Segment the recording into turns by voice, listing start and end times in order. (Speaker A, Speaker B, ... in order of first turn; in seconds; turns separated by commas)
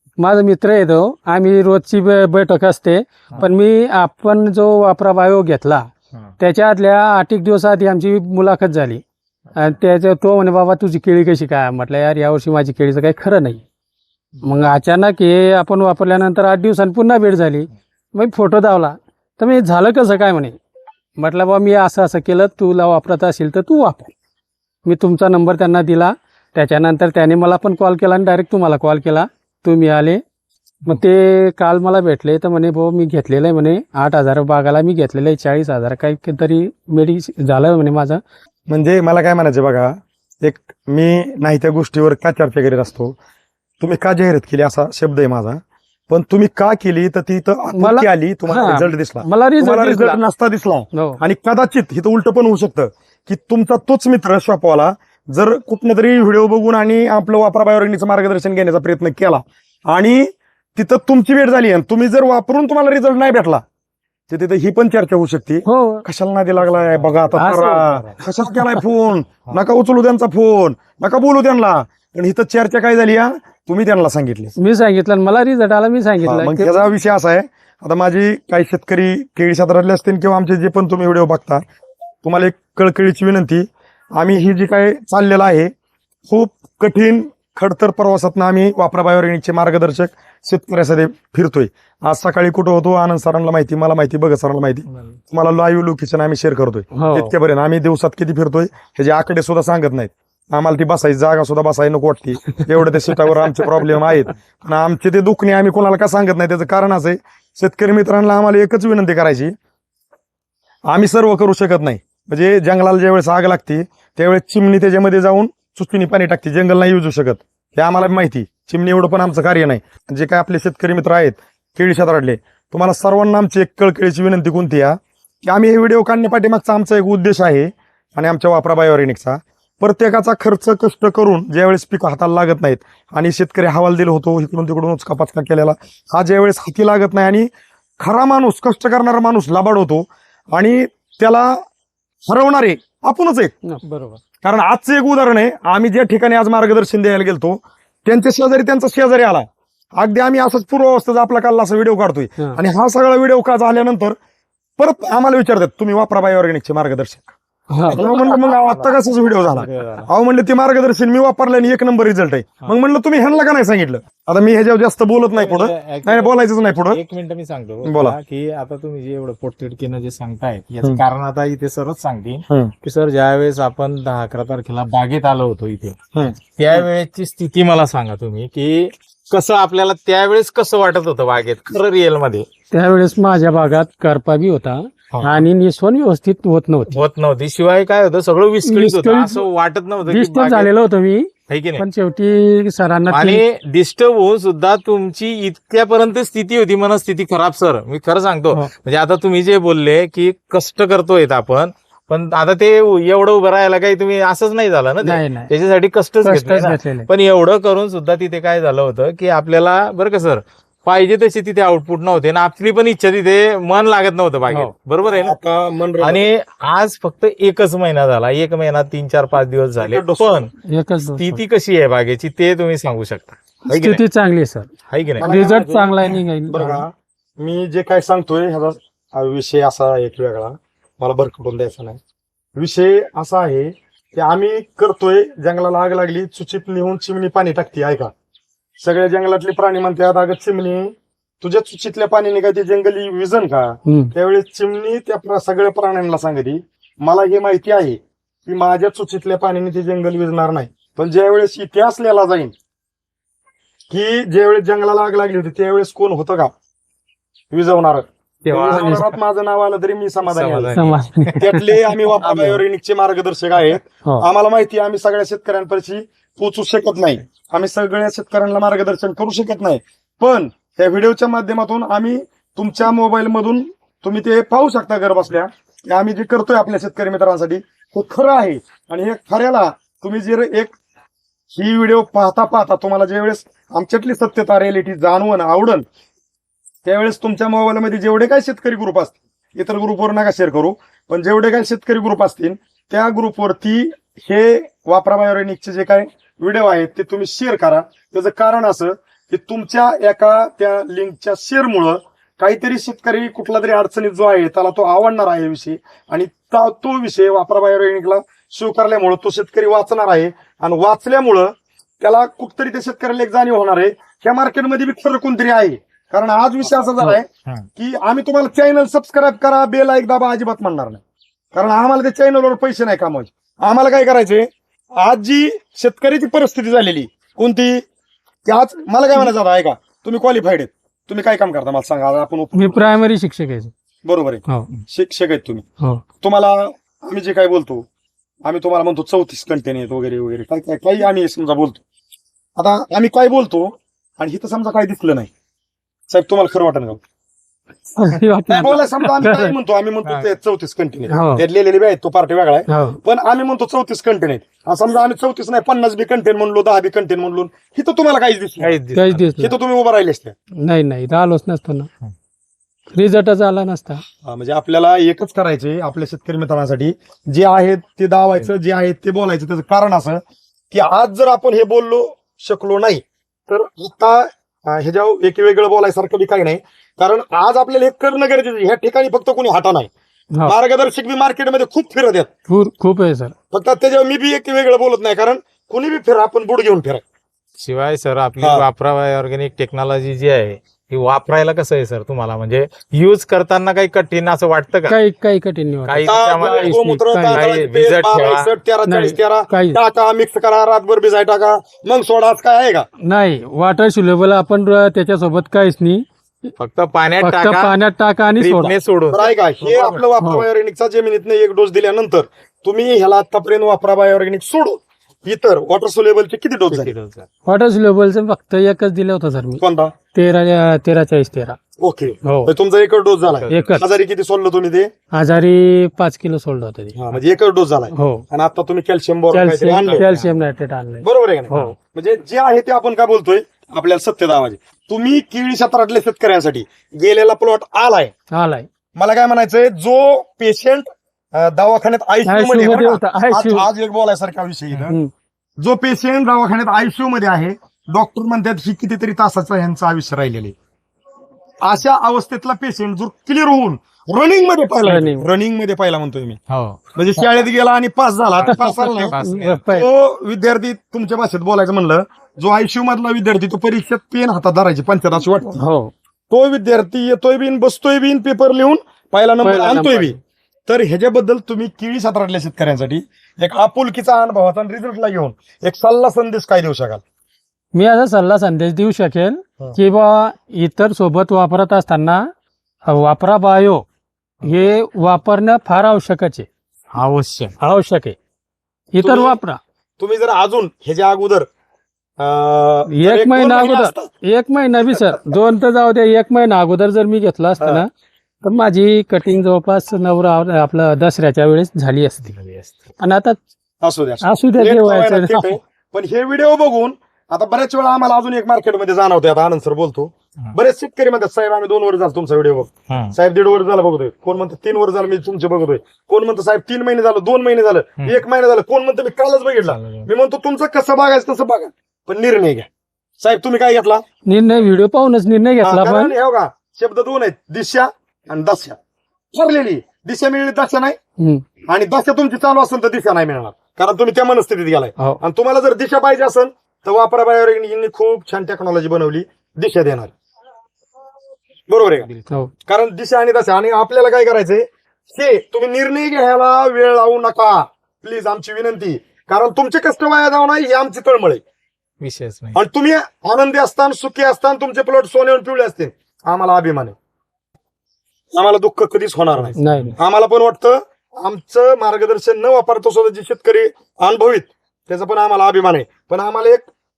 Speaker A: 0.2-5.8, Speaker A: 6.4-9.0, Speaker A: 9.6-13.6, Speaker A: 14.4-20.6, Speaker A: 21.2-24.1, Speaker A: 24.9-30.2, Speaker A: 30.9-38.2, Speaker B: 38.7-43.2, Speaker B: 43.8-63.6, Speaker A: 47.8-50.2, Speaker A: 50.9-51.2, Speaker B: 64.3-74.5, Speaker A: 65.7-66.0, Speaker A: 67.4-68.8, Speaker A: 74.6-76.9, Speaker B: 76.2-81.6, Speaker B: 82.2-85.7, Speaker B: 86.3-109.5, Speaker A: 96.9-97.3, Speaker B: 110.9-141.6, Speaker B: 142.3-143.5, Speaker C: 143.8-144.2, Speaker B: 144.4-149.5, Speaker B: 150.0-154.2, Speaker B: 154.8-157.3, Speaker A: 157.7-158.0, Speaker B: 157.9-167.0, Speaker C: 157.9-160.1, Speaker C: 165.3-182.5, Speaker B: 167.8-168.2, Speaker A: 182.7-187.0, Speaker C: 185.1-185.5, Speaker C: 186.9-190.7, Speaker A: 188.6-189.4, Speaker A: 190.1-193.4, Speaker C: 191.5-191.8, Speaker C: 193.1-215.4, Speaker A: 205.0-205.5, Speaker A: 206.2-207.1, Speaker B: 215.1-216.3, Speaker C: 216.0-224.0, Speaker B: 219.8-220.5, Speaker A: 220.7-221.4, Speaker A: 223.7-224.7, Speaker C: 224.9-225.3, Speaker B: 225.2-232.0, Speaker A: 225.2-226.8, Speaker B: 232.6-238.1, Speaker B: 238.8-252.5, Speaker A: 243.9-244.1, Speaker B: 253.9-256.5, Speaker B: 257.5-260.8, Speaker C: 258.4-259.2, Speaker A: 258.7-259.0, Speaker C: 260.2-261.4, Speaker A: 260.7-261.8, Speaker B: 261.4-280.8, Speaker C: 262.2-262.6, Speaker B: 281.5-285.9, Speaker B: 286.9-317.3, Speaker C: 317.0-317.6, Speaker B: 317.8-321.0, Speaker B: 321.5-327.8, Speaker B: 328.5-332.8, Speaker A: 332.6-333.7, Speaker B: 334.1-335.6, Speaker B: 336.2-337.9, Speaker B: 338.4-341.8, Speaker B: 342.6-345.3, Speaker B: 346.1-347.0, Speaker A: 348.0-349.5, Speaker B: 348.5-358.8, Speaker A: 351.1-351.4, Speaker A: 352.7-353.0, Speaker C: 358.6-359.3, Speaker A: 358.9-359.6, Speaker B: 359.4-360.4, Speaker A: 360.6-361.9, Speaker A: 362.9-364.0, Speaker B: 364.2-379.9, Speaker B: 380.4-382.3, Speaker A: 382.5-383.3, Speaker B: 383.5-387.0, Speaker C: 387.6-395.0, Speaker B: 388.4-388.6, Speaker A: 394.9-397.4, Speaker C: 395.9-396.8, Speaker B: 396.1-402.9, Speaker C: 397.3-398.5, Speaker A: 398.9-399.8, Speaker A: 403.0-406.5, Speaker C: 406.6-407.7, Speaker A: 407.2-408.7, Speaker C: 408.4-410.1, Speaker B: 409.1-416.9, Speaker A: 410.2-410.5, Speaker C: 416.7-417.3, Speaker A: 417.5-419.6, Speaker B: 419.6-419.9, Speaker A: 420.1-421.6, Speaker B: 421.8-424.9, Speaker A: 422.2-422.5, Speaker C: 423.3-423.8, Speaker A: 423.5-423.9, Speaker A: 425.1-427.0, Speaker B: 427.0-430.1, Speaker A: 427.9-428.2, Speaker A: 429.3-431.7, Speaker C: 429.8-430.3, Speaker B: 431.0-438.1, Speaker A: 438.3-438.7, Speaker B: 439.0-445.0, Speaker A: 442.3-443.7, Speaker B: 445.6-450.6, Speaker B: 451.6-456.4, Speaker A: 454.8-455.3, Speaker C: 456.5-456.8, Speaker B: 456.9-459.2, Speaker C: 458.4-459.6, Speaker A: 458.6-459.9, Speaker B: 459.7-465.6, Speaker A: 465.6-465.9, Speaker B: 466.3-470.2, Speaker A: 469.4-470.2, Speaker B: 470.7-477.0, Speaker A: 477.7-482.3, Speaker A: 482.9-483.9, Speaker A: 484.4-486.5, Speaker C: 486.9-487.6, Speaker A: 487.6-488.2, Speaker A: 488.9-489.6, Speaker B: 489.0-489.4, Speaker B: 490.0-491.5, Speaker B: 492.2-494.1, Speaker A: 492.9-497.9, Speaker B: 494.9-495.4, Speaker A: 498.4-502.4, Speaker C: 502.4-502.9, Speaker A: 503.0-503.4, Speaker B: 503.8-522.7, Speaker A: 504.2-505.6, Speaker C: 512.9-513.1, Speaker C: 519.7-520.1, Speaker B: 523.2-524.0, Speaker A: 524.3-526.1, Speaker B: 525.6-528.8, Speaker B: 529.3-531.0, Speaker A: 531.2-531.4, Speaker B: 531.7-540.1, Speaker B: 541.7-542.1, Speaker B: 542.7-551.4, Speaker C: 552.0-552.6, Speaker B: 552.5-557.0, Speaker B: 558.4-566.7, Speaker C: 559.4-560.0, Speaker A: 559.6-560.0